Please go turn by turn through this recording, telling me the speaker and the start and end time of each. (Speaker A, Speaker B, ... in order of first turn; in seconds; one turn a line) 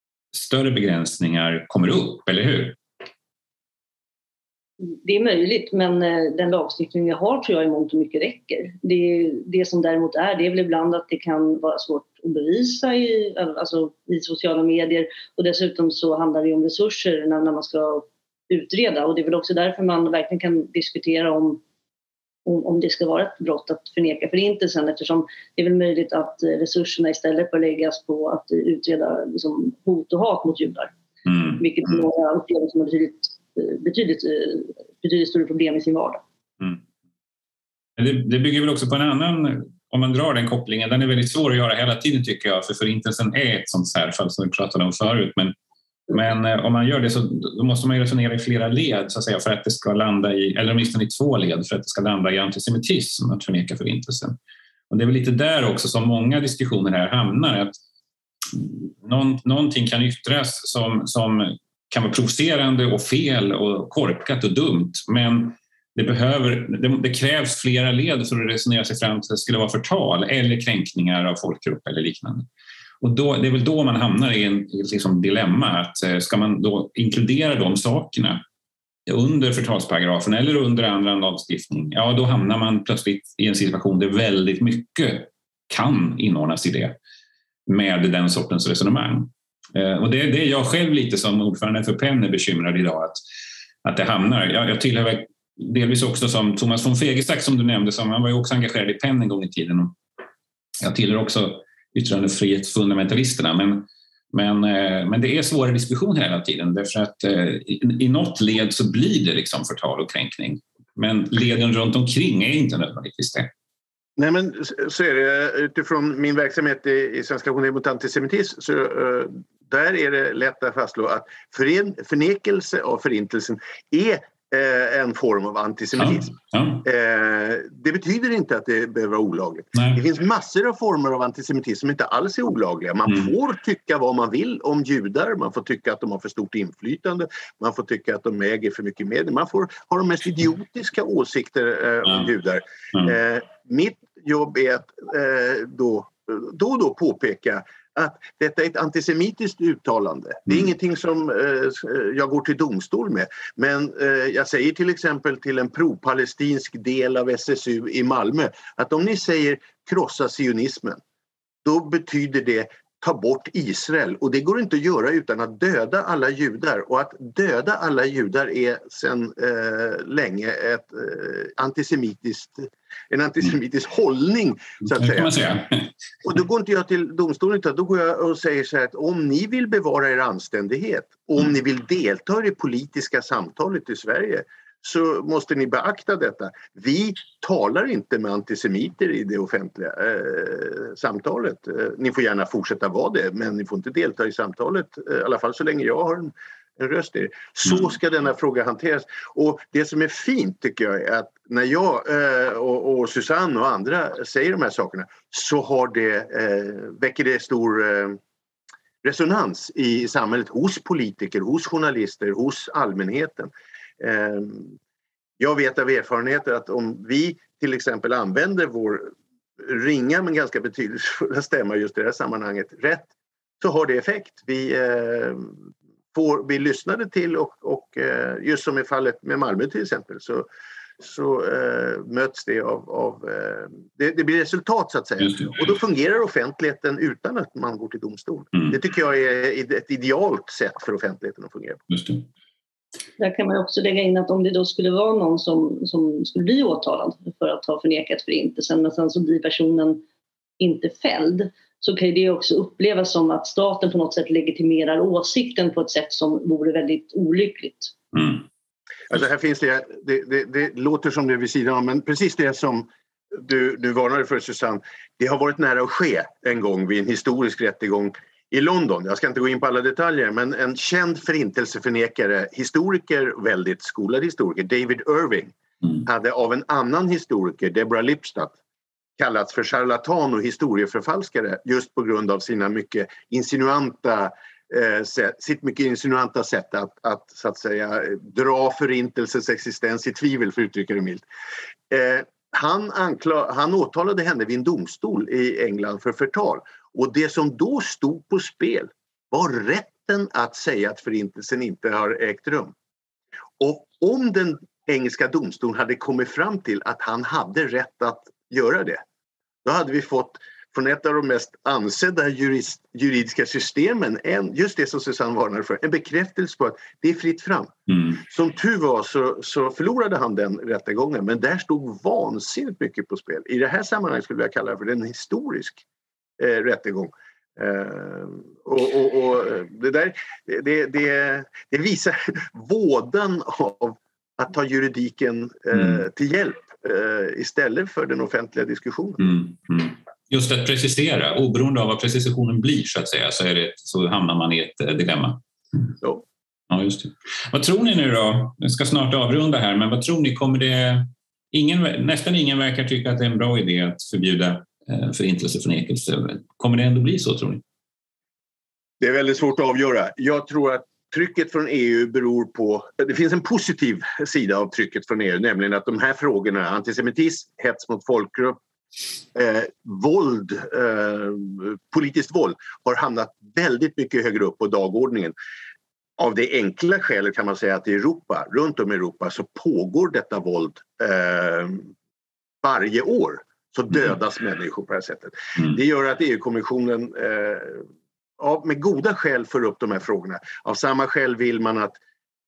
Speaker A: 0.3-2.8
Speaker B: 4.8-21.6
Speaker B: 22.4-30.9
Speaker A: 31.3-31.6
Speaker B: 31.4-36.2
Speaker A: 38.0-45.5
Speaker A: 46.1-54.4
Speaker A: 54.9-57.8
Speaker A: 58.5-72.5
Speaker A: 73.0-78.4
Speaker A: 79.1-87.0
Speaker A: 87.7-93.2
Speaker A: 93.8-100.0
Speaker A: 100.8-113.5
Speaker C: 114.2-161.0
Speaker A: 126.0-126.8
Speaker A: 129.8-130.0
Speaker C: 161.6-175.3
Speaker A: 174.9-175.9
Speaker C: 176.2-208.2
Speaker C: 209.0-214.8
Speaker C: 215.4-225.6
Speaker C: 226.1-230.5
Speaker C: 231.0-241.9
Speaker A: 235.3-235.6
Speaker A: 241.9-242.2
Speaker B: 243.2-250.0
Speaker B: 250.6-257.9
Speaker A: 258.1-258.4
Speaker C: 259.1-278.6
Speaker C: 279.2-291.2
Speaker C: 291.9-302.7
Speaker C: 303.6-309.0
Speaker C: 309.6-325.8
Speaker C: 326.4-339.3
Speaker A: 339.2-345.4
Speaker A: 346.7-357.6
Speaker C: 359.0-368.6
Speaker C: 369.3-375.4
Speaker C: 376.2-381.9
Speaker C: 382.6-387.9
Speaker C: 388.4-392.0